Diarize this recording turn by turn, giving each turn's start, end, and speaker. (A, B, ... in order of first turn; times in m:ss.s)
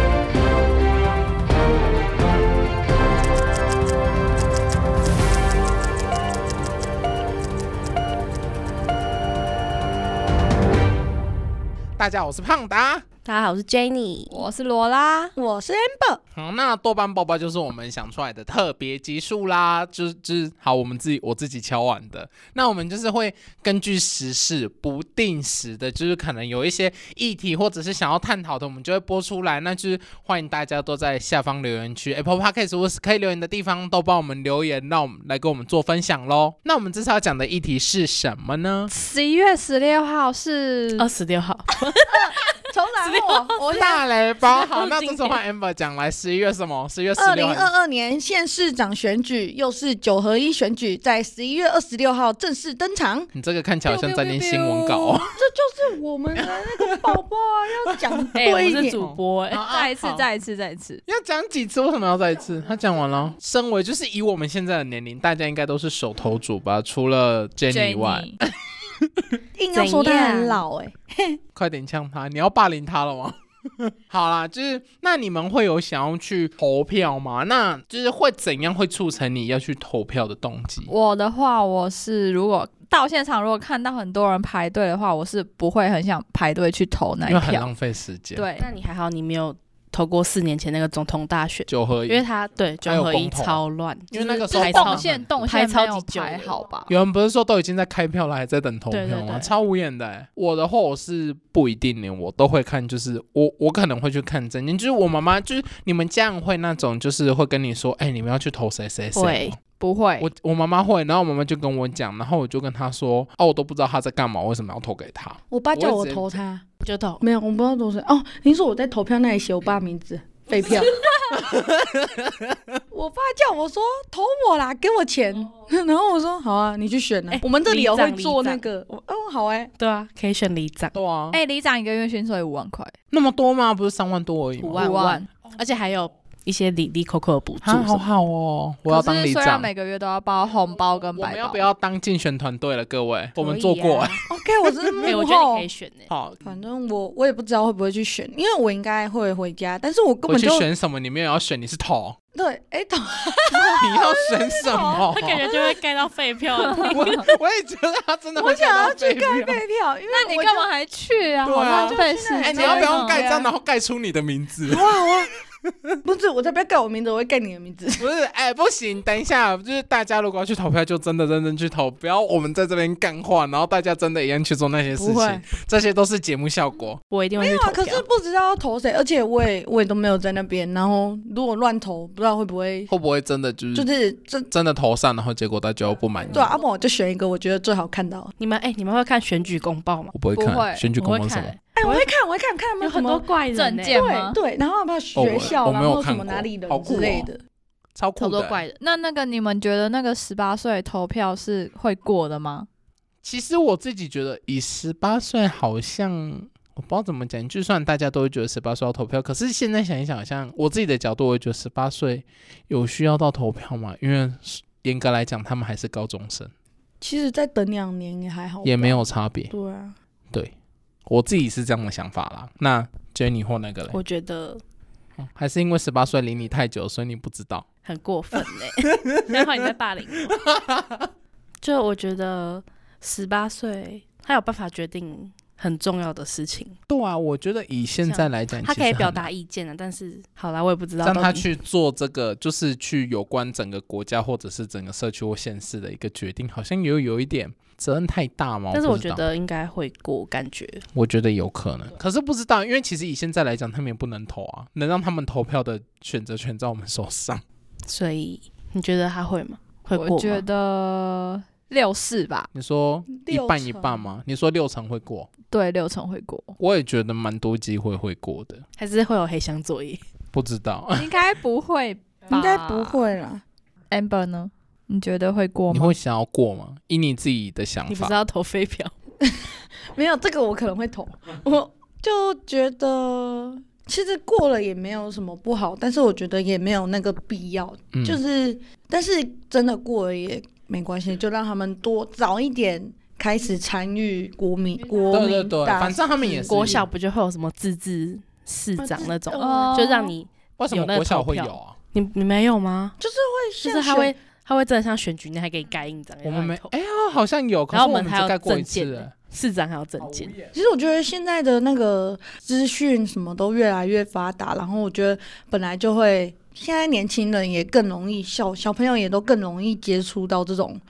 0:12.0-0:13.0 A
0:13.2-0:14.4 B
0:14.3-0:15.3 C
0:15.4-0:16.2 D
0:16.4-0:38.9 A
0:38.9-0:41.1 C
0:41.0-0:43.6 B
0:42.1-0:44.0 D
0:43.7-0:47.7 A
0:44.4-0:45.4 B
0:47.2-0:53.3 D
0:53.3-0:55.3 A
0:53.8-0:55.2 C
0:55.3-0:59.0 D
0:56.5-0:57.2 A
0:58.4-0:59.6 B
0:58.9-1:00.3 A
0:59.7-1:01.0 C
1:01.1-1:08.4 A
1:07.7-1:08.4 C
1:09.6-1:11.4 D
1:09.7-1:10.6 B
1:11.6-1:20.9 A
1:20.9-1:27.7 C
1:27.3-1:28.5 A
1:28.4-1:28.7 C
1:28.6-1:36.6 B
1:31.7-1:32.3 A
1:32.8-1:35.2 A
1:34.2-1:36.9 C
1:36.9-1:49.6 A
1:38.9-1:39.5 B
1:49.2-1:49.6 B
1:49.7-1:50.3 C
1:50.2-1:56.4 A
1:55.5-1:56.6 D
1:56.8-1:57.2 B
1:57.2-2:00.9 D
2:00.6-2:00.9 B
2:01.4-2:02.6 A
2:02.9-2:09.7 D
2:07.3-2:08.7 B
2:09.8-2:10.9 B
2:10.9-2:11.4 A
2:11.3-2:12.9 C
2:13.1-2:14.9 A
2:14.6-2:18.0 B
2:14.8-2:15.3 C
2:17.6-2:19.7 A
2:18.9-2:21.6 C
2:21.2-2:24.2 A
2:23.4-2:24.2 B
2:24.3-2:25.7 D
2:25.0-2:26.1 B
2:26.1-2:26.4 A
2:26.4-2:30.7 D
2:30.3-2:32.2 A
2:32.3-2:34.9 D
2:33.5-2:33.8 C
2:33.8-2:35.5 A
2:34.6-2:35.1 C
2:35.0-2:37.2 B
2:36.9-2:39.6 A
2:38.4-2:40.7 D
2:40.1-2:43.5 C
2:41.5-2:45.1 A
2:41.5-2:43.3 D
2:44.7-2:45.3 D
2:46.0-2:48.1 D
2:48.0-2:57.0 A
2:55.0-2:55.4 B
2:57.1-2:58.0 B
2:57.4-3:02.9 D
3:02.9-3:03.9 A
3:03.7-3:04.5 D
3:04.5-3:06.5 A
3:06.3-3:08.3 D
3:08.4-3:10.1 B
3:10.1-3:11.6 A
3:10.4-3:10.9 C
3:11.0-3:12.1 B
3:11.7-3:13.3 D
3:12.8-3:14.0 B
3:13.5-3:14.4 C
3:13.9-3:17.4 D
3:15.2-3:17.3 A
3:18.0-3:18.6 A
3:18.2-3:18.8 B
3:18.8-3:22.7 C
3:23.2-3:36.5 A
3:37.0-3:40.0 D
3:38.6-3:39.5 A
3:41.1-3:44.0 A
3:43.9-3:44.6 B
3:45.2-3:47.7 A
3:47.8-3:50.4 B
3:50.4-3:51.1 A
3:51.6-3:56.8 B
3:56.9-3:59.3 A
3:58.0-4:01.5 B
4:01.0-4:09.2 A
4:08.7-4:10.8 B
4:10.9-4:17.4 A
4:17.9-4:20.4 B
4:20.0-4:22.5 C
4:22.5-4:25.3 A
4:23.1-4:24.1 D
4:25.4-4:26.6 C
4:26.6-4:28.6 A
4:28.8-4:30.0 B
4:30.3-4:31.1 A
4:31.0-4:33.0 C
4:32.3-4:33.4 D
4:33.9-4:36.0 C
4:35.7-4:38.2 A
4:37.9-4:38.9 B
4:39.2-4:56.8 D
4:47.9-4:48.2 A
4:55.1-4:56.9 A
4:56.5-5:03.0 B
4:58.8-4:59.9 D
4:59.3-5:00.2 C
5:00.6-5:01.8 A
5:03.0-5:04.2 D
5:03.6-5:06.7 B
5:06.2-5:09.1 A
5:07.7-5:10.4 B
5:10.0-5:10.5 A
5:10.5-5:20.8 D